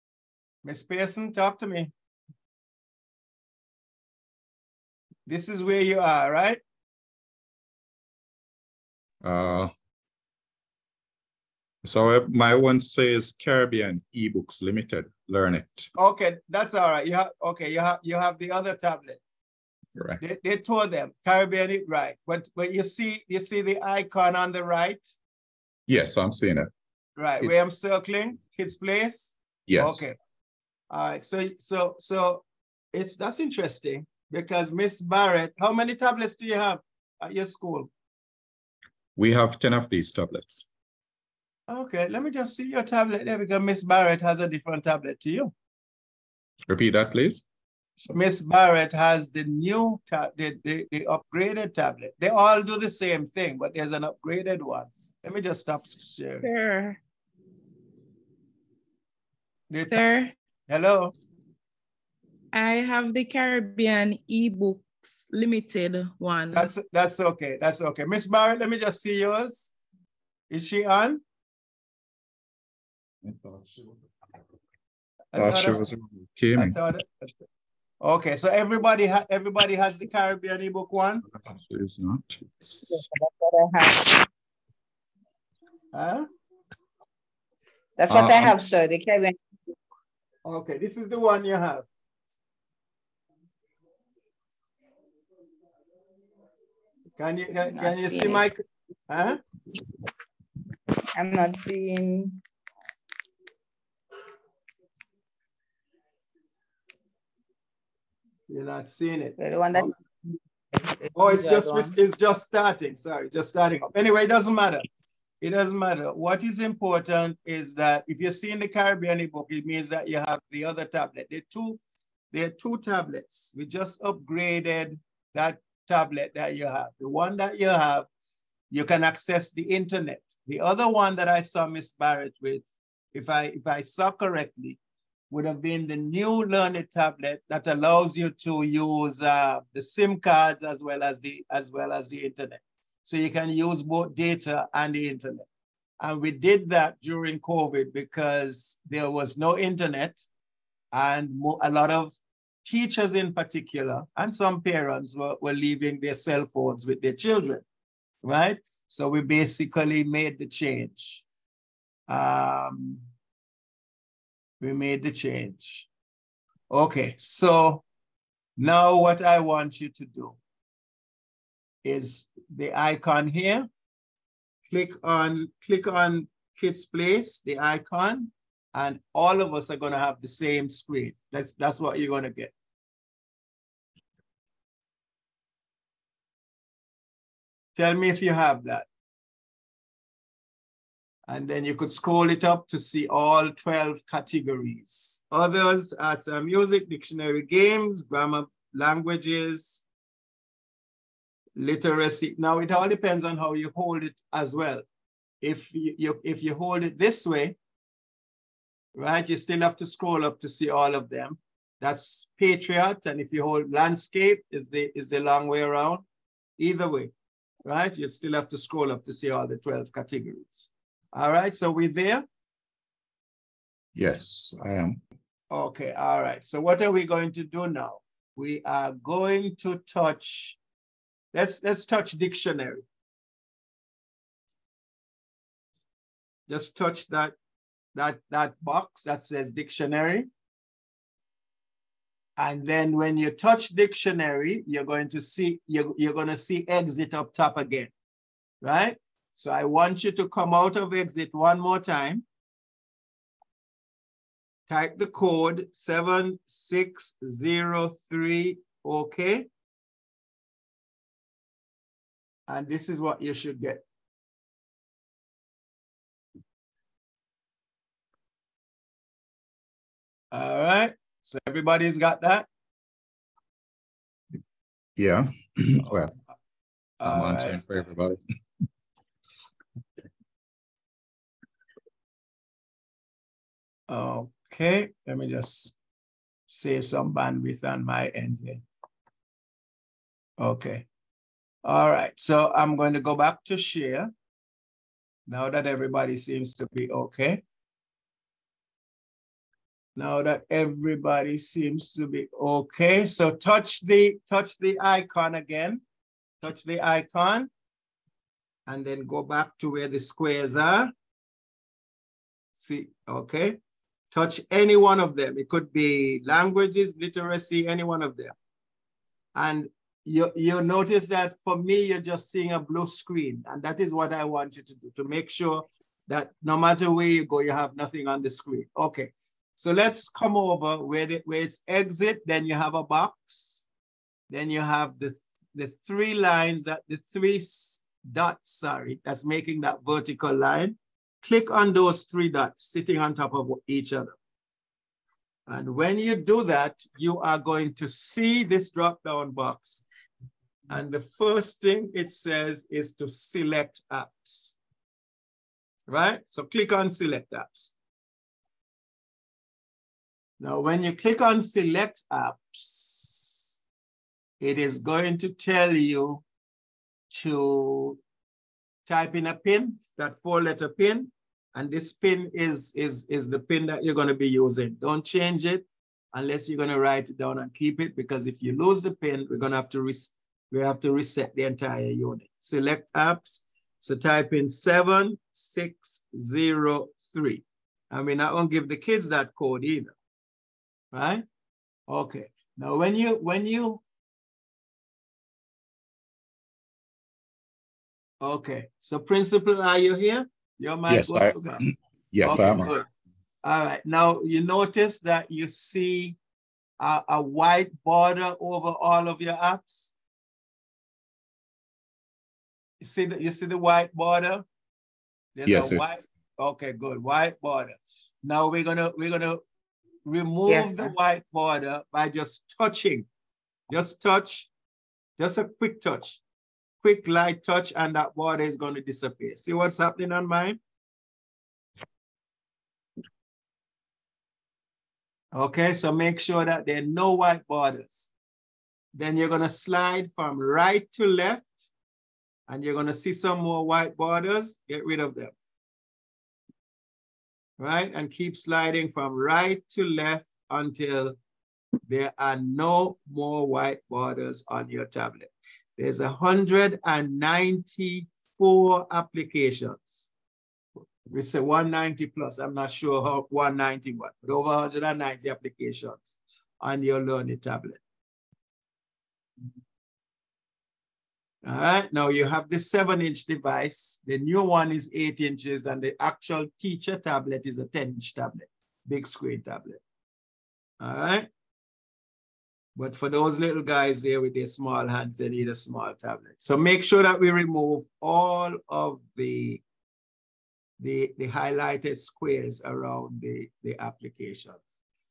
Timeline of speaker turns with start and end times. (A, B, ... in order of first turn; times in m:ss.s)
0:00.6-0:01.9 A
0:05.3-0:06.6 A
0:09.2-0:09.7 B
0:11.8-0:15.9 B
0:16.0-0:19.2 A
0:20.2-0:25.1 A
0:25.9-0:26.7 B
0:27.2-0:30.2 A
0:29.7-0:30.0 B
0:30.9-0:37.9 A
0:39.2-0:40.7 B
0:41.7-0:45.5 A
0:46.7-0:47.4 B
0:48.0-0:56.5 A
0:56.4-0:57.0 C
0:59.7-1:00.0 A
0:59.8-1:00.3 C
1:00.7-1:01.1 A
1:02.5-1:06.7 C
1:06.5-1:09.7 A
1:10.5-1:11.2 A
1:13.2-1:14.0 B
1:15.3-1:15.9 A
1:15.3-1:16.8 B
1:16.5-1:17.3 A
1:18.0-1:21.2 A
1:21.2-1:23.0 B
1:22.8-1:24.2 D
1:25.9-1:26.3 A
1:28.0-1:29.4 D
1:28.1-1:28.6 B
1:30.4-1:31.8 A
1:37.2-1:39.4 A
1:37.7-1:38.4 D
1:41.1-1:42.4 D
1:48.5-1:49.9 A
1:49.4-1:50.0 D
1:50.8-1:52.0 D
1:51.1-1:54.8 A
1:55.4-2:01.8 A
2:02.3-2:08.1 A
2:08.7-2:12.6 A
2:13.1-2:14.8 A
2:15.3-2:25.4 A
2:26.0-2:30.2 A
2:30.9-2:32.1 A
2:32.6-2:37.6 A
2:38.2-2:41.2 A
2:42.1-2:43.0 A
2:44.6-2:45.9 A
2:46.7-2:47.8 A
2:48.6-2:50.4 A
2:51.8-2:53.7 A
2:54.7-3:02.5 A
3:07.8-3:08.8 A
3:11.3-3:19.8 A
3:21.6-3:24.8 A
3:25.4-3:27.6 A
3:28.9-3:36.0 A
3:36.6-3:37.1 A
3:37.6-3:42.2 A
3:43.9-3:45.0 B
3:45.5-3:50.6 A
3:51.3-3:52.8 A
3:56.5-3:57.3 A
3:57.9-4:00.3 A
4:02.4-4:07.9 A
4:08.6-4:12.2 A
4:14.7-4:19.5 A
4:22.5-4:23.8 A
4:30.3-4:32.5 A
4:35.0-4:36.1 B
4:37.0-4:37.6 A
4:37.0-4:38.2 B
4:43.9-4:45.7 A
4:46.5-4:48.6 A
4:50.4-4:50.8 A
4:51.6-4:54.1 A
4:55.3-4:57.4 A
5:00.0-5:05.8 A
5:06.4-5:07.5 A
5:08.7-5:10.9 A
5:12.6-5:13.6 A
5:14.1-5:18.3 A
5:19.3-5:33.7 A
5:34.3-5:44.1 A
5:45.5-5:49.8 A
5:50.7-5:54.6 A
5:55.9-5:57.7 A
6:00.4-6:03.5 A
6:04.4-6:06.2 A
6:07.1-6:08.0 A
6:08.8-6:29.9 A
6:30.9-6:31.2 A
6:31.9-6:33.8 A
6:38.2-6:41.6 A
6:40.9-6:42.7 B
6:42.2-6:42.9 A
6:43.4-6:46.2 A
6:46.8-6:49.9 A
6:52.8-6:54.4 A
6:55.3-6:59.4 A
6:55.4-6:56.0 B
7:00.0-7:03.1 A
7:00.5-7:00.9 D
7:03.7-7:04.5 A
7:05.2-7:06.2 A
7:06.8-7:10.6 A
7:15.3-7:18.1 A
7:18.9-7:21.7 A
7:22.5-7:25.3 A
7:27.6-7:31.2 A
7:31.9-7:40.1 A
7:41.1-7:47.8 A
7:51.4-7:59.8 A
8:00.8-8:01.3 A
8:02.8-8:09.6 A
8:10.8-8:14.6 A